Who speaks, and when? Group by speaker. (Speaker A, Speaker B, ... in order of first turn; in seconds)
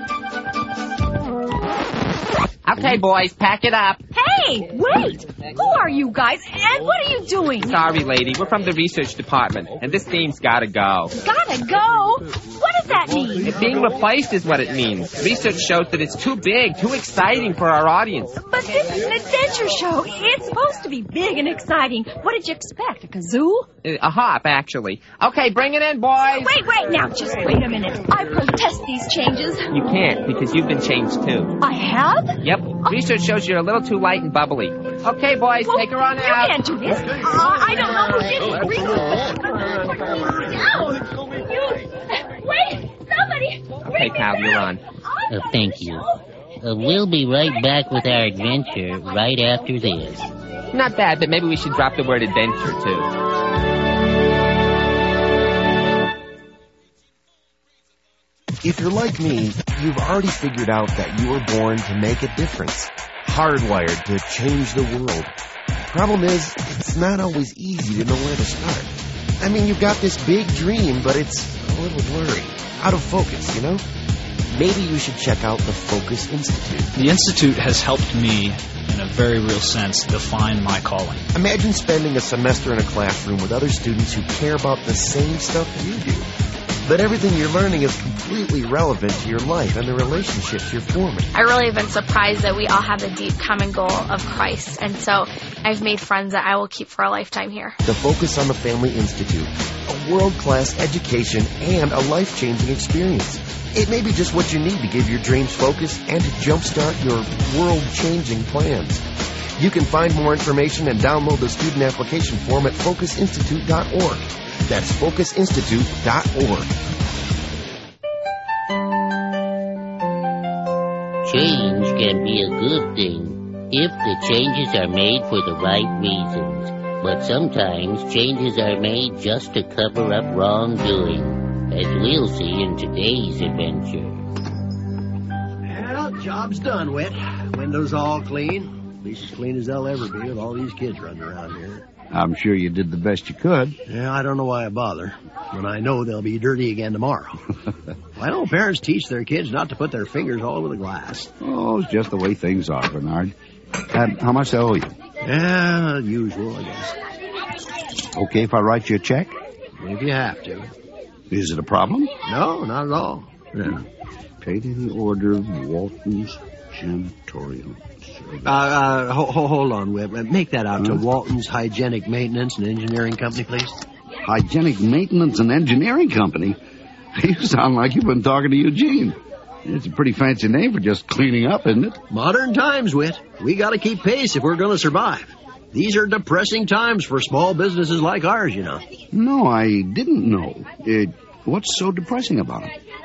Speaker A: 2.6-4.0, 7.7-11.1, 13.4-18.4, 23.8-26.5, 29.7-31.6, 32.4-36.5, 43.9-44.8, 50.7-53.1
Speaker B: 4.1-7.8, 11.2-13.6, 18.4-23.7, 26.2-29.7, 31.6-33.0, 35.6-44.2
Speaker C: 45.3-46.0, 46.6-50.3, 121.2-134.2
Speaker D: 58.6-65.3, 65.8-73.8, 74.5-76.9, 81.3-86.3, 86.8-91.3, 97.8-109.0, 109.6-116.8
Speaker E: 77.0-81.3
Speaker F: 91.3-97.8
Speaker G: 135.7-141.9, 143.9-147.4, 148.2-151.3, 155.2-156.9, 159.8-160.7, 162.3-163.8, 168.4-173.8, 182.1-188.8
Speaker H: 142.1-143.8, 151.4-153.3, 153.9-154.9, 158.1-159.3, 161.3-162.1, 164.4-168.5, 170.8-171.0, 174.2-176.6, 177.1-182.0, 189.1-192.7